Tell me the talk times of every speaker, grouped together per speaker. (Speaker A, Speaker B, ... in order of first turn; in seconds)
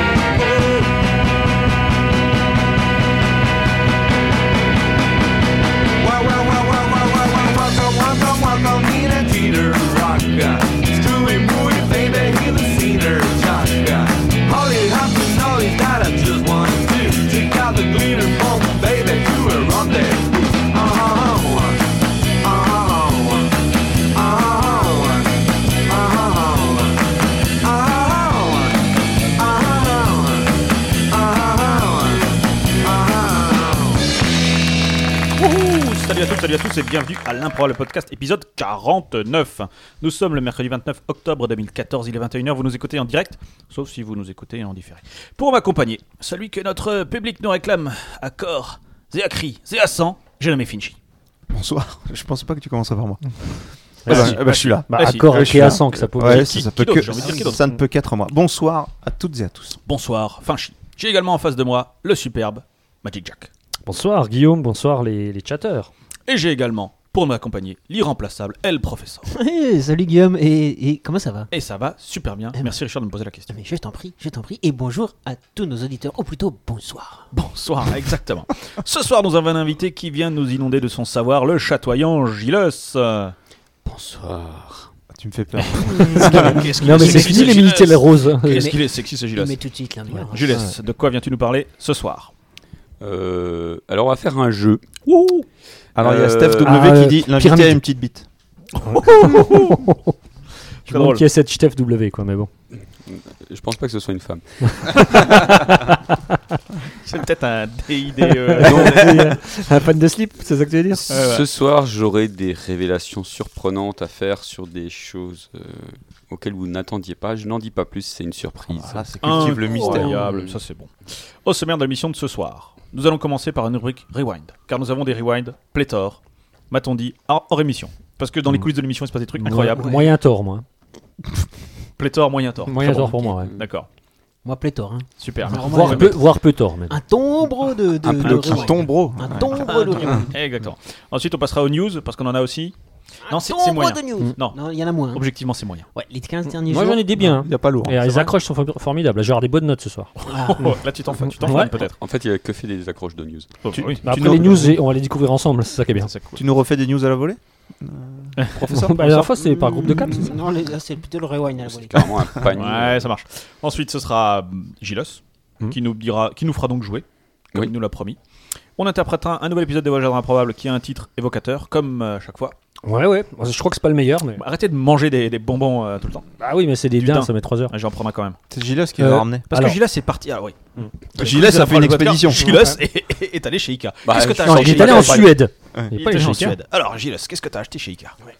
Speaker A: 6.0-23.6, 24.1-34.1
Speaker B: 35.3-51.0, 54.0-57.6, 59.9-63.5, 66.3-69.3, 71.5-73.5, 77.3-83.3, 85.6-89.6, 90.3-92.3, 95.0-95.5, 98.7-99.8, 100.9-101.2, 107.0-109.3, 111.1-111.5, 119.2-126.2, 126.7-130.0, 132.0-133.9, 135.2-136.2, 138.2-138.8, 139.5-142.7, 143.3-144.6, 145.1-145.9, 148.0-148.3, 150.2-151.9, 153.6-154.3, 156.0-156.4, 158.3-159.3, 162.5-168.2, 168.8-172.6, 174.4-176.3, 177.0-178.4, 179.5-185.3, 185.9-188.2
Speaker C: 51.5-59.8, 85.1-86.7, 95.9-98.3, 118.7-120.2, 138.0-140.2, 147.2-148.0, 153.7-154.8, 156.3-159.0, 178.5-179.5, 181.1-182.7, 184.6-185.9
Speaker D: 54.0-56.6, 63.9-65.9, 86.1-88.7, 96.6-97.8, 98.8-100.1, 100.9-102.5, 104.7-106.2, 108.5-111.2, 129.4-130.6, 132.6-133.5, 135.5-136.9, 146.5-150.1, 151.4-151.7, 154.0-156.1, 158.7-160.3, 172.8-174.4, 176.4-177.7, 179.0-179.8, 184.4-186.6
Speaker E: 69.3-71.5, 73.5-77.3, 86.9-87.6, 88.5-90.6, 129.8-130.1, 134.4-136.4, 136.9-140.3, 143.3-145.3, 145.9-147.1, 150.3-150.8, 159.4-162.2
Speaker F: 83.8-84.9, 93.0-94.8, 96.0-96.9, 103.0-105.7, 108.6-109.3, 111.1-120.6, 151.5-153.5, 161.6-163.1, 184.1-185.3